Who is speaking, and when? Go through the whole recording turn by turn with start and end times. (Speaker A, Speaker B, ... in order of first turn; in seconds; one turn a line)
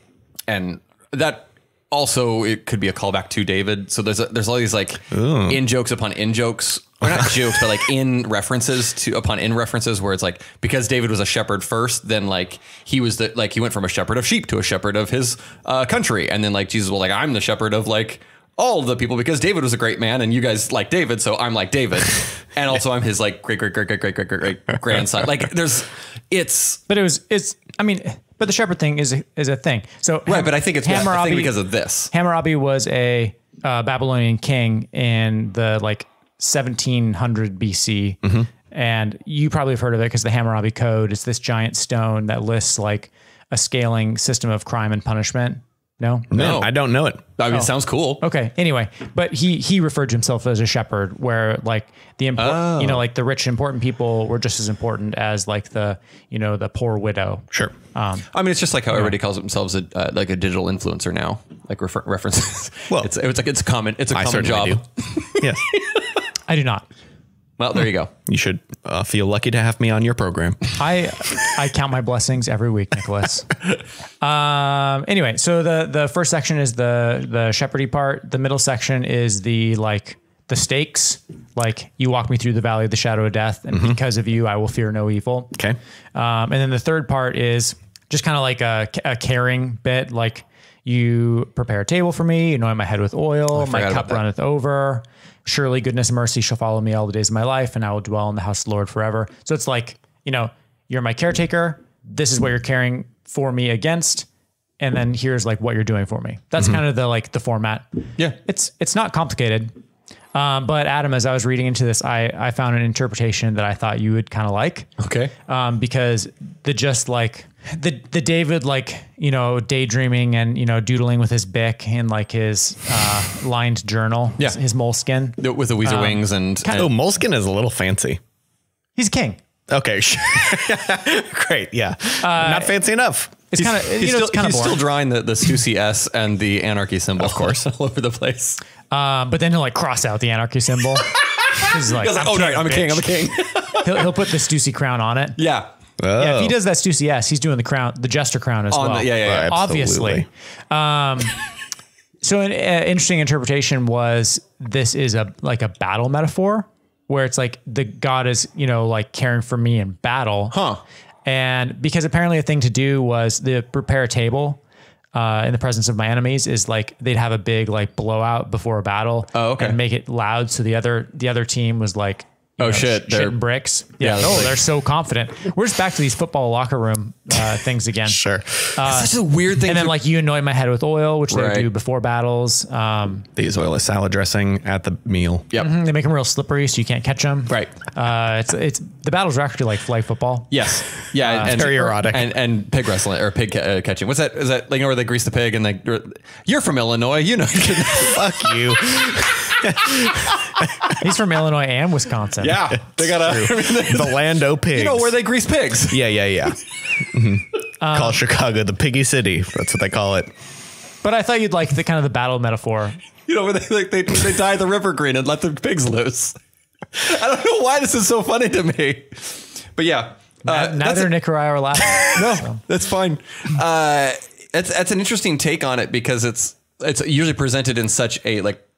Speaker A: 0.5-26.8
Speaker B: 5.1-5.6
Speaker B: 7.0-7.5
Speaker C: 26.9-31.5
Speaker A: 30.3-32.1
Speaker C: 32.1-38.2
Speaker B: 38.2-38.5
Speaker C: 38.7-46.4
Speaker B: 46.3-47.2
Speaker A: 46.3-46.7
Speaker A: 47.4-48.2
Speaker C: 47.5-58.3
Speaker A: 52.4-53.0
Speaker A: 58.3-65.9
Speaker B: 64.1-64.8
Speaker B: 65.4-65.6
Speaker C: 66.5-66.8
Speaker A: 67.6-68.1
Speaker B: 68.2-70.8
Speaker C: 70.8-73.5
Speaker C: 74.2-85.5
Speaker B: 83.7-84.0
Speaker C: 86.1-104.3
Speaker A: 93.5-94.2
Speaker C: 104.8-107.8
Speaker C: 108.4-109.7
Speaker C: 110.3-114.9
Speaker A: 115.0-115.3
Speaker C: 115.5-126.9
Speaker A: 125.4-126.9
Speaker B: 126.7-128.2
Speaker C: 128.9-129.4
Speaker B: 129.7-133.4
Speaker C: 132.2-132.8
Speaker C: 133.5-134.8
Speaker A: 133.5-138.6
Speaker B: 137.2-137.6
Speaker C: 138.9-143.2
Speaker A: 141.1-144.2
Speaker C: 143.8-145.4
Speaker A: 145.4-145.7
Speaker B: 146.0-146.6
Speaker C: 146.2-151.4
Speaker A: 148.7-149.5
Speaker B: 149.2-150.3
Speaker C: 152.2-160.5
Speaker A: 160.5-160.8
Speaker C: 161.2-164.6
Speaker C: 165.1-178.2
Speaker A: 169.3-169.8
Speaker A: 172.6-173.4
Speaker A: 174.0-174.6
Speaker B: 178.1-178.7
Speaker C: 178.8-183.3
Speaker A: 178.8-179.9
Speaker A: 181.3-181.7
Speaker B: 183.3-185.5
Speaker C: 185.6-190.5
Speaker A: 190.5-198.8
Speaker C: 191.2-192.0
Speaker B: 191.4-192.3
Speaker B: 198.0-200.9
Speaker A: 199.6-200.5
Speaker C: 200.9-202.7
Speaker A: 202.4-204.2
Speaker B: 203.0-205.1
Speaker A: 204.7-206.0
Speaker B: 205.9-210.3
Speaker C: 207.8-208.2
Speaker C: 211.0-213.0
Speaker A: 213.3-216.3
Speaker A: 216.9-221.1
Speaker C: 220.4-222.6
Speaker A: 221.8-228.6